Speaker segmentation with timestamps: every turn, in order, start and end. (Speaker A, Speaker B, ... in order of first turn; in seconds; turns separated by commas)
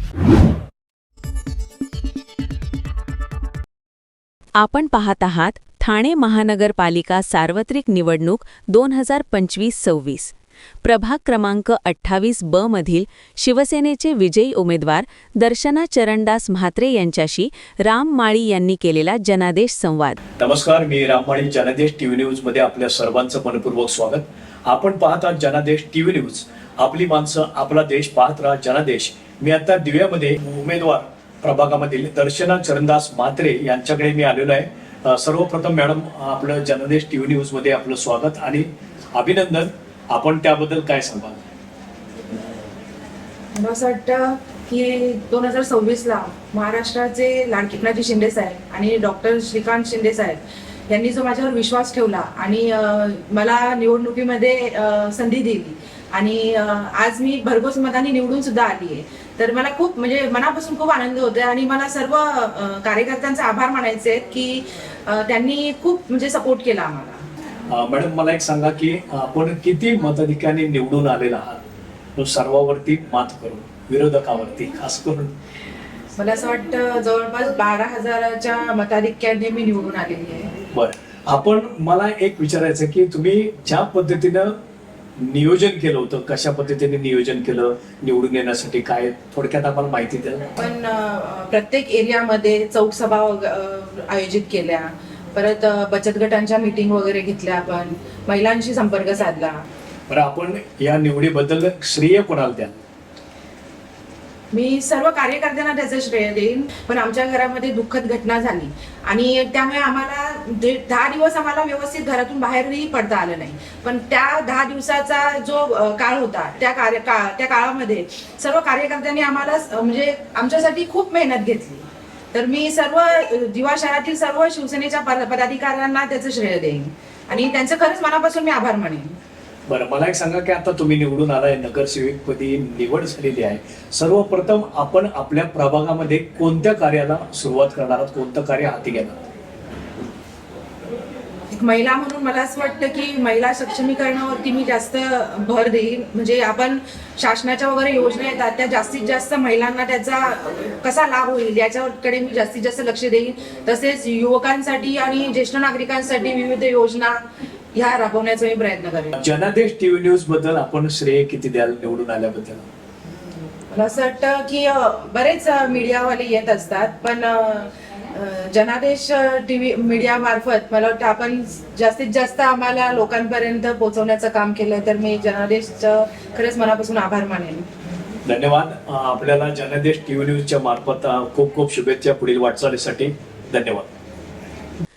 Speaker A: 4.6-20.2, Speaker B: 20.4-41.4, Speaker C: 43.5-67.2, Speaker B: 67.7-71.6, Speaker B: 72.2-75.3, Speaker C: 76.2-80.5, Speaker B: 80.7-84.5, Speaker B: 85.2-90.4, Speaker C: 90.5-99.5, Speaker B: 100.1-102.8, Speaker C: 104.5-129.1, Speaker B: 129.7-139.2, Speaker C: 141.5-157.2, Speaker C: 157.7-159.2, Speaker B: 159.2-162.6, Speaker C: 163.7-177.7, Speaker B: 178.2-183.9